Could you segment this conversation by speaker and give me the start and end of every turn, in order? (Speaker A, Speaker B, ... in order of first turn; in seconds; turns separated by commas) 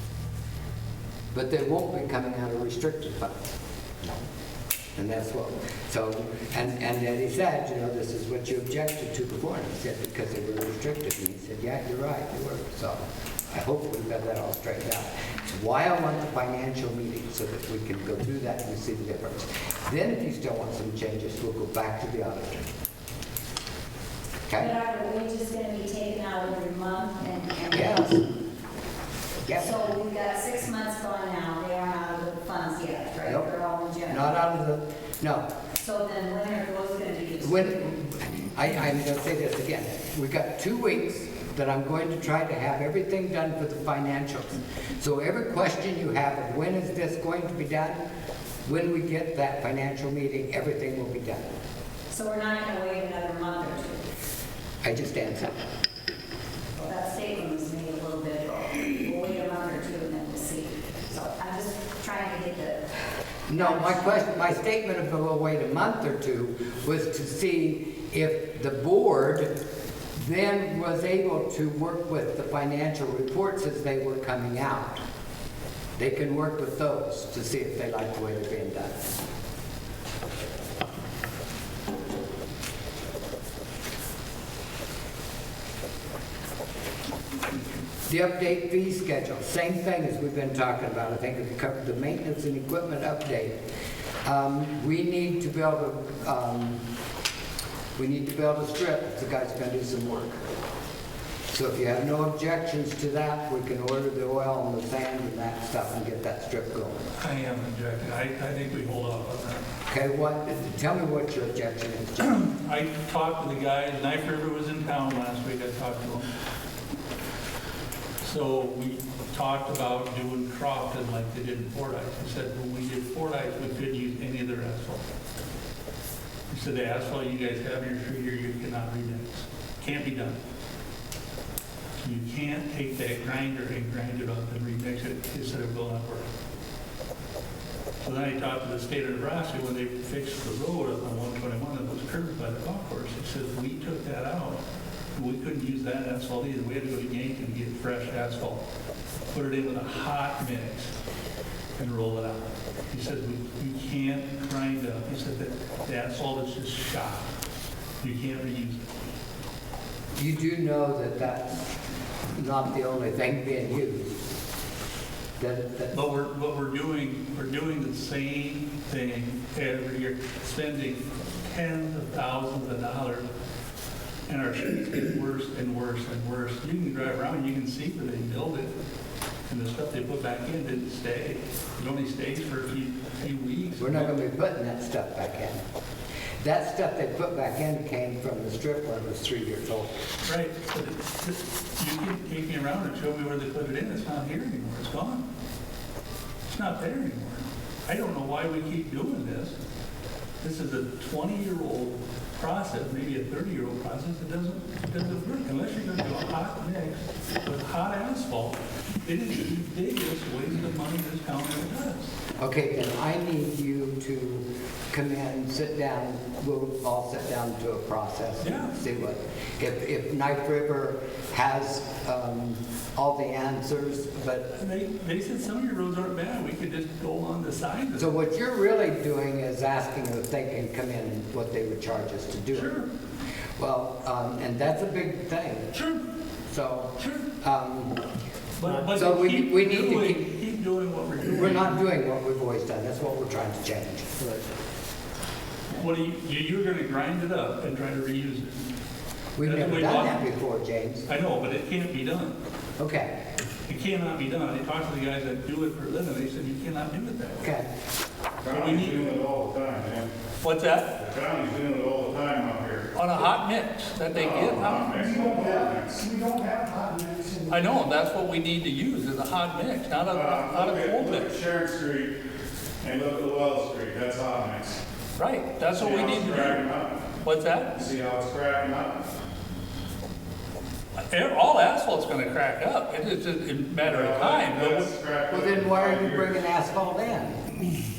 Speaker A: 1.3-4.2, Speaker A: 5.0-22.6, Speaker A: 24.5-24.7, Speaker B: 24.6-28.2, Speaker A: 27.7-28.2, Speaker A: 29.4-29.8, Speaker B: 29.6-34.3, Speaker A: 34.1-35.5, Speaker B: 35.8-37.9, Speaker A: 37.4-48.0, Speaker A: 48.6-51.5, Speaker B: 52.1-54.0, Speaker A: 54.8-55.6, Speaker B: 56.8-62.8, Speaker A: 63.5-69.5, Speaker B: 63.5-64.2, Speaker A: 70.2-75.0, Speaker A: 76.0-79.1, Speaker A: 88.1-93.6, Speaker A: 94.2-96.8, Speaker A: 98.0-100.4, Speaker A: 101.5-107.0, Speaker C: 107.2-109.6, Speaker A: 109.9-112.4, Speaker C: 112.2-116.3, Speaker C: 118.2-125.0, Speaker C: 126.5-130.4, Speaker C: 132.0-136.3, Speaker C: 138.0-144.6, Speaker C: 145.2-148.6, Speaker C: 149.3-150.9, Speaker C: 151.8-157.3, Speaker C: 158.0-158.8, Speaker A: 160.2-161.6, Speaker A: 162.3-164.2, Speaker A: 165.4-166.0, Speaker C: 165.9-173.3, Speaker C: 174.3-178.7, Speaker C: 179.5-184.1, Speaker A: 183.8-185.6, Speaker A: 186.4-190.0, Speaker C: 190.2-195.2, Speaker C: 196.5-199.6, Speaker C: 200.4-212.1, Speaker A: 212.4-224.5, Speaker C: 218.4-218.8, Speaker C: 224.6-228.1, Speaker A: 228.0-232.7, Speaker C: 232.5-232.9, Speaker A: 233.6-235.7, Speaker C: 235.7-236.0, Speaker A: 236.5-237.9, Speaker C: 237.0-237.3, Speaker C: 238.6-241.8, Speaker A: 238.9-240.2, Speaker A: 241.2-244.4, Speaker C: 245.7-248.5, Speaker A: 249.4-251.1, Speaker C: 249.4-250.2, Speaker C: 251.1-252.4, Speaker A: 252.8-253.1, Speaker C: 253.7-257.5, Speaker A: 257.4-257.7, Speaker D: 258.4-260.1, Speaker C: 258.5-259.1, Speaker C: 260.4-260.9, Speaker D: 261.0-262.9, Speaker C: 262.9-265.0, Speaker D: 264.1-266.1, Speaker E: 264.9-267.6, Speaker C: 267.5-271.3, Speaker D: 270.1-272.1, Speaker D: 272.8-274.8, Speaker C: 275.2-276.7, Speaker D: 275.7-277.0, Speaker C: 277.2-277.8, Speaker D: 277.8-279.0, Speaker C: 281.1-284.9, Speaker D: 283.8-286.3, Speaker A: 285.3-287.4